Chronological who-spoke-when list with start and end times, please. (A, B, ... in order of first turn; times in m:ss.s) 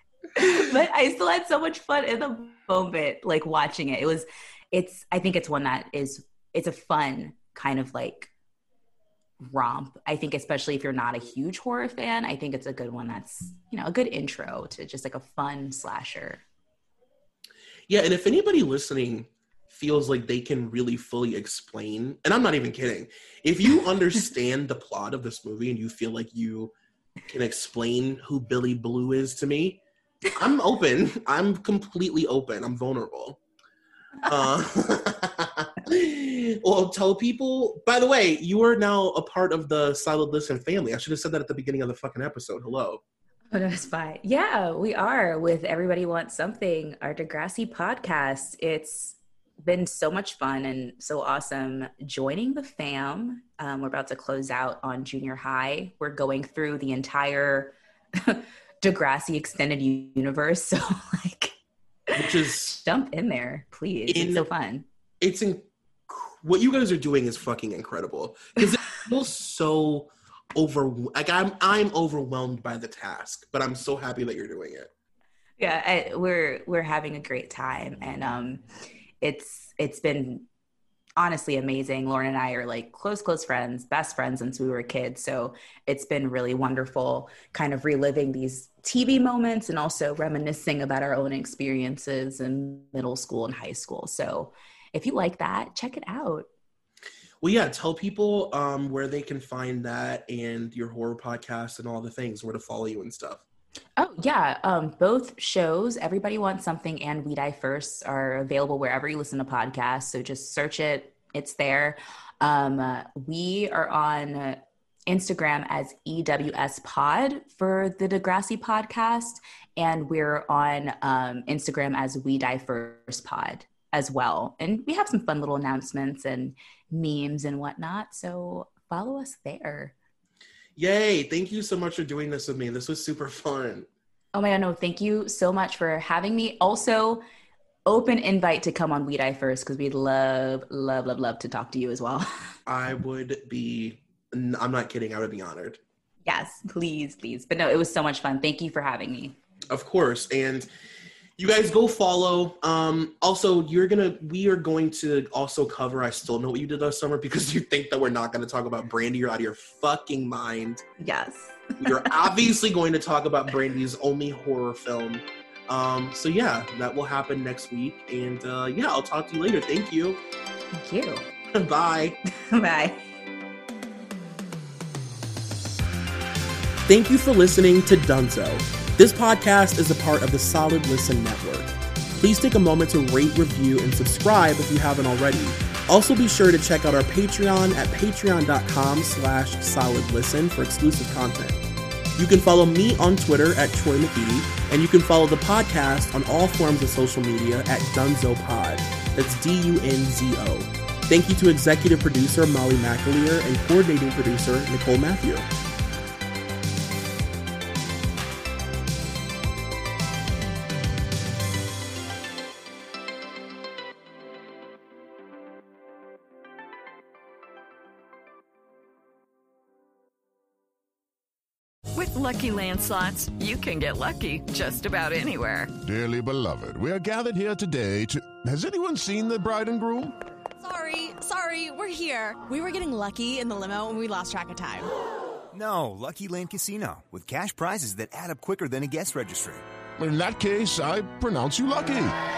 0:00.4-0:08.3 A
0:09.4-0:16.4 A
0:17.9-0:26.7 B
0:27.3-0:29.8 B
0:30.3-0:33.4 B
0:34.2-0:43.0 B
0:43.5-1:01.5 A
1:02.1-1:04.9 A
1:02.2-1:02.7 B
1:04.1-1:04.5 B
1:05.2-1:14.9 B
1:15.6-1:18.6 A
1:19.2-1:20.5 A
1:21.2-1:36.5 A
1:37.4-1:43.4 B
1:44.0-2:09.9 A
2:10.8-2:13.9 B
2:14.3-2:17.2 A
2:17.9-2:22.3 A
2:22.7-2:25.8 B
2:26.2-2:29.4 A
2:29.7-2:30.7 B
2:31.4-2:40.8 B
2:41.0-2:42.3 A
2:41.8-2:50.2 B
2:50.7-2:51.2 A
2:51.5-2:52.2 B
2:52.4-2:53.1 A
2:56.9-3:11.6 B
3:12.2-3:25.5 B
3:42.0-3:45.7 C
3:45.8-3:50.1 D
3:50.6-3:54.9 E
3:55.5-3:59.6 F
4:00.0-4:02.2 D